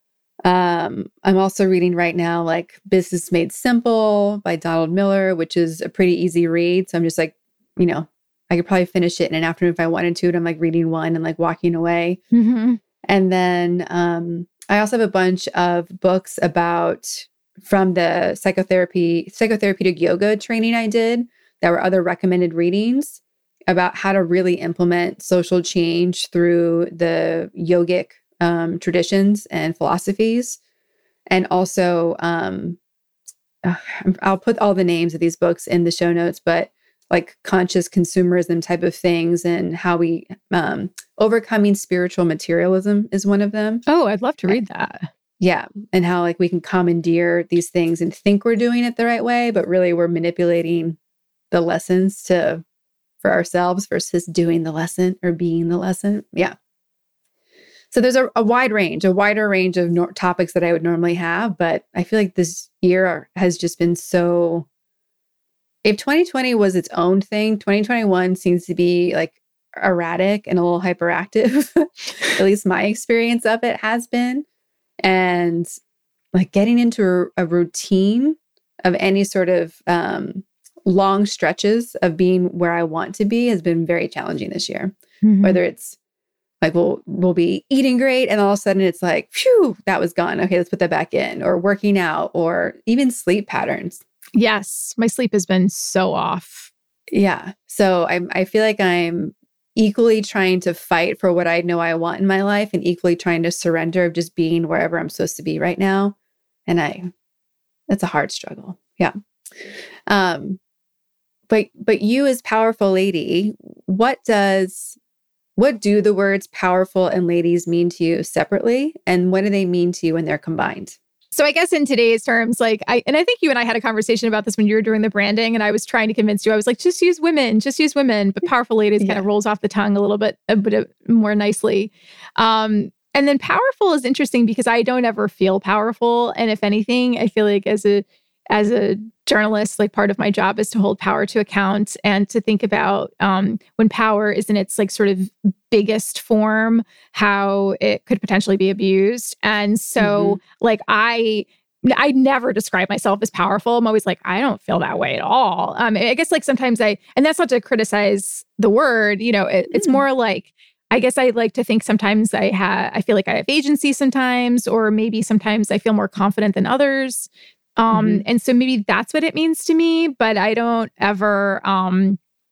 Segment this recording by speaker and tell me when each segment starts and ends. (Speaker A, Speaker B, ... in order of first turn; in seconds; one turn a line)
Speaker A: 0.4-12.2
Speaker B: 12.3-12.8
Speaker A: 13.1-30.6
Speaker A: 31.3-32.8
Speaker A: 33.6-43.8
Speaker B: 43.9-45.1
Speaker A: 45.4-51.0
Speaker A: 51.5-52.6
Speaker A: 53.2-56.5
Speaker A: 57.9-64.7
Speaker A: 65.8-74.5
Speaker A: 75.0-75.7
Speaker A: 76.3-86.0
Speaker B: 85.2-85.6
Speaker A: 86.6-94.0
Speaker B: 94.4-96.7
Speaker A: 97.1-106.2
Speaker A: 106.7-107.1
Speaker A: 107.9-110.6
Speaker A: 111.5-115.0
Speaker A: 115.6-121.0
Speaker B: 121.3-172.2
Speaker A: 150.0-150.4
Speaker A: 159.7-160.0
Speaker A: 167.9-168.2